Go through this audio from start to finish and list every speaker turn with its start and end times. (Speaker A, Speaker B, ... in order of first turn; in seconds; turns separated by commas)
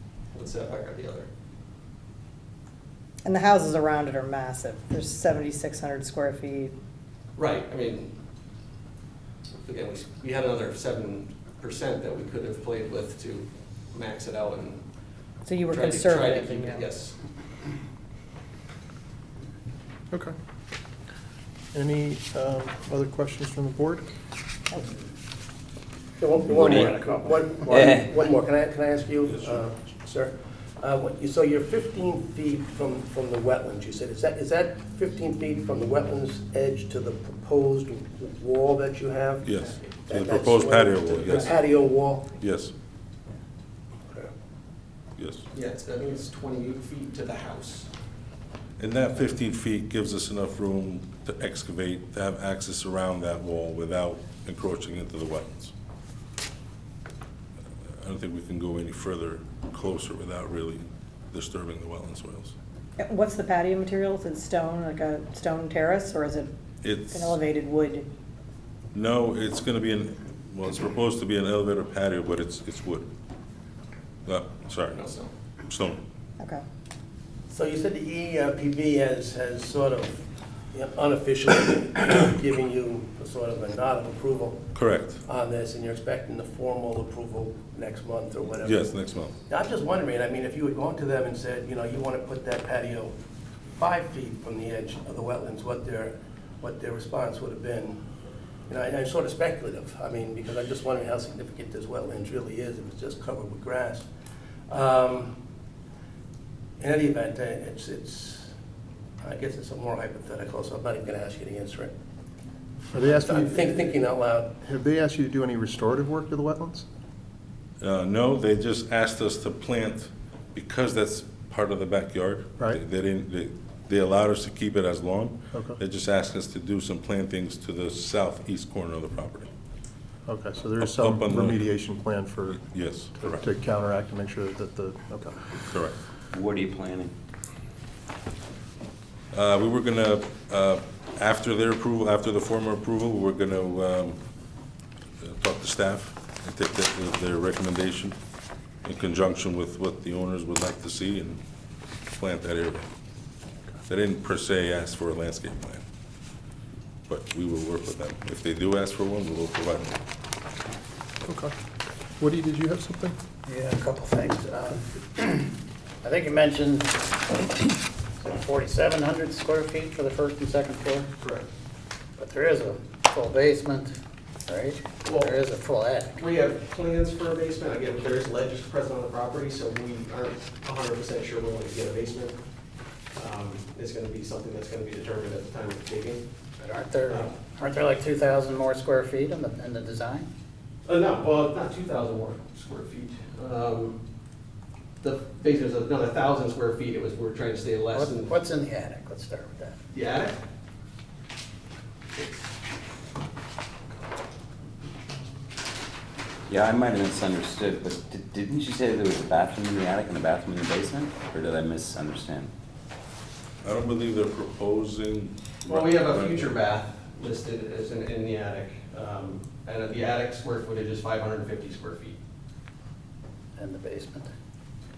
Speaker A: 0.3-1.3, Speaker B: 3.2-6.7, Speaker A: 7.4-8.1, Speaker A: 9.7-14.8, Speaker B: 15.4-16.9, Speaker A: 15.7-17.2, Speaker C: 21.7-24.1, Speaker D: 26.2-42.3, Speaker E: 29.3-29.6, Speaker E: 39.4-41.6, Speaker E: 42.4-42.7, Speaker E: 45.2-45.4, Speaker A: 45.5-47.9, Speaker E: 48.8-55.7, Speaker E: 58.0-62.5, Speaker B: 63.0-66.5, Speaker E: 66.8-67.4, Speaker B: 67.1-68.1, Speaker E: 68.9-73.1, Speaker E: 74.3-75.1, Speaker A: 74.9-75.3, Speaker E: 75.7-76.0, Speaker D: 77.5-84.7, Speaker E: 84.7-85.2, Speaker D: 85.2-88.9, Speaker E: 88.6-89.4, Speaker D: 89.5-93.1, Speaker D: 93.8-98.0, Speaker D: 98.7-104.1, Speaker D: 104.7-105.4, Speaker D: 106.8-108.5, Speaker D: 109.2-111.9, Speaker C: 112.9-113.8, Speaker D: 113.0-114.5, Speaker C: 114.5-116.9, Speaker E: 117.8-129.5, Speaker C: 125.5-125.8, Speaker C: 130.3-132.6, Speaker E: 130.8-131.7, Speaker E: 132.5-133.4, Speaker C: 133.2-135.5, Speaker E: 135.7-136.0, Speaker F: 136.3-137.1, Speaker E: 139.3-144.2, Speaker E: 145.2-148.2, Speaker E: 148.8-151.4, Speaker E: 152.2-152.9, Speaker E: 153.9-155.8, Speaker E: 157.1-160.0, Speaker C: 161.2-161.5, Speaker C: 162.2-163.2, Speaker G: 163.5-165.5, Speaker G: 166.0-167.2, Speaker G: 168.2-171.1, Speaker A: 171.2-171.5, Speaker G: 172.2-173.9, Speaker G: 174.5-176.2, Speaker A: 175.0-175.3, Speaker A: 176.2-182.4, Speaker A: 183.1-186.2, Speaker G: 186.6-190.3, Speaker A: 190.9-194.0, Speaker A: 195.0-198.3, Speaker G: 197.9-199.8, Speaker A: 199.9-200.3, Speaker F: 206.5-212.5, Speaker E: 213.6-216.6, Speaker A: 215.7-222.2, Speaker G: 223.6-224.3